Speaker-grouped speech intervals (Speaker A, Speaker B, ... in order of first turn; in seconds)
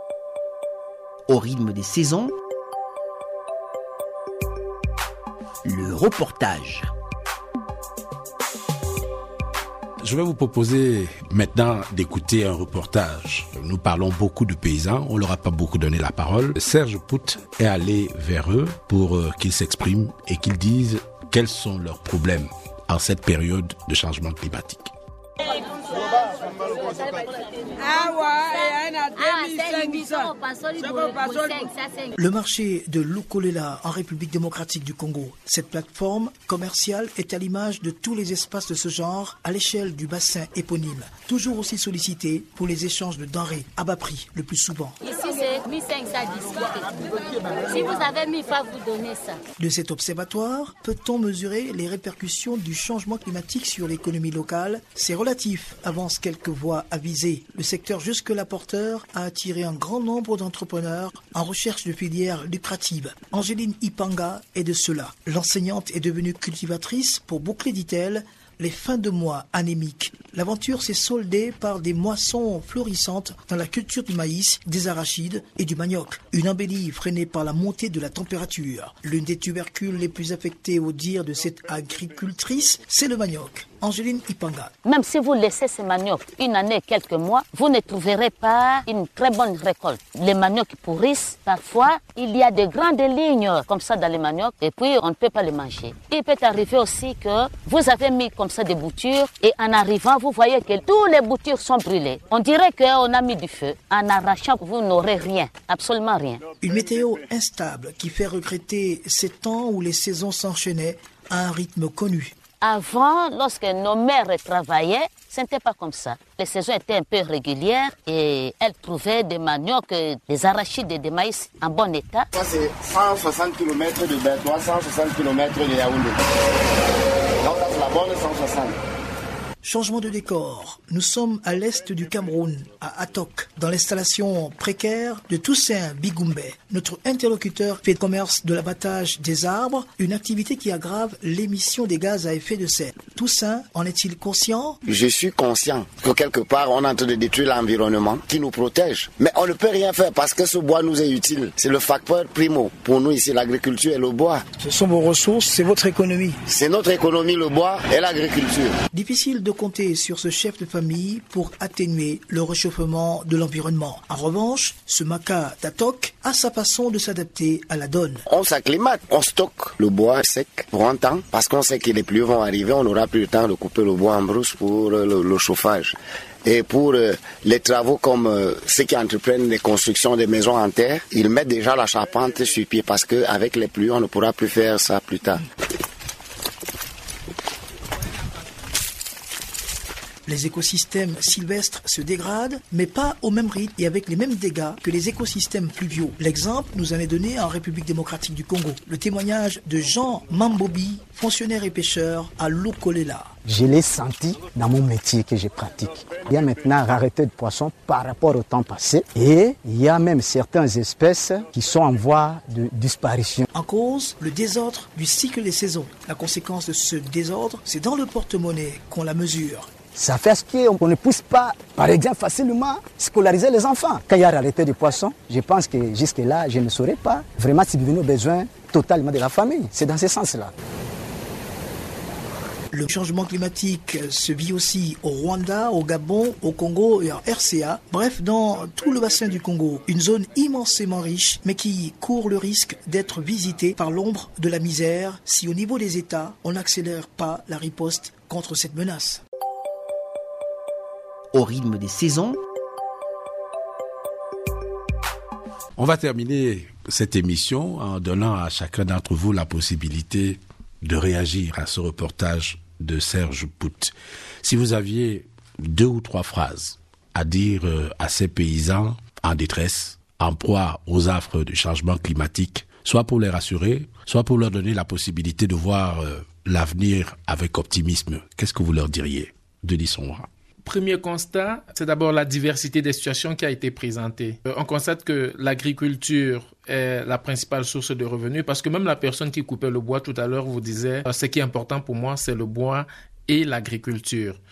Speaker A: 1.3-2.3, 5.6-6.9, 251.3-252.4
Speaker B: 10.0-24.9, 255.8-280.3
Speaker C: 27.9-31.7, 45.2-46.9, 47.4-49.3, 84.8-106.4, 112.6-122.3
Speaker D: 32.2-45.0, 49.6-84.7, 106.6-112.3, 129.6-144.8, 154.6-156.4, 158.9-168.2, 190.2-203.3, 213.5-219.7, 232.7-249.2
Speaker E: 122.3-126.2, 127.4-128.8, 144.8-154.4, 156.5-158.7, 168.3-185.4
Speaker F: 203.4-213.4, 219.9-230.5
Speaker G: 280.6-294.4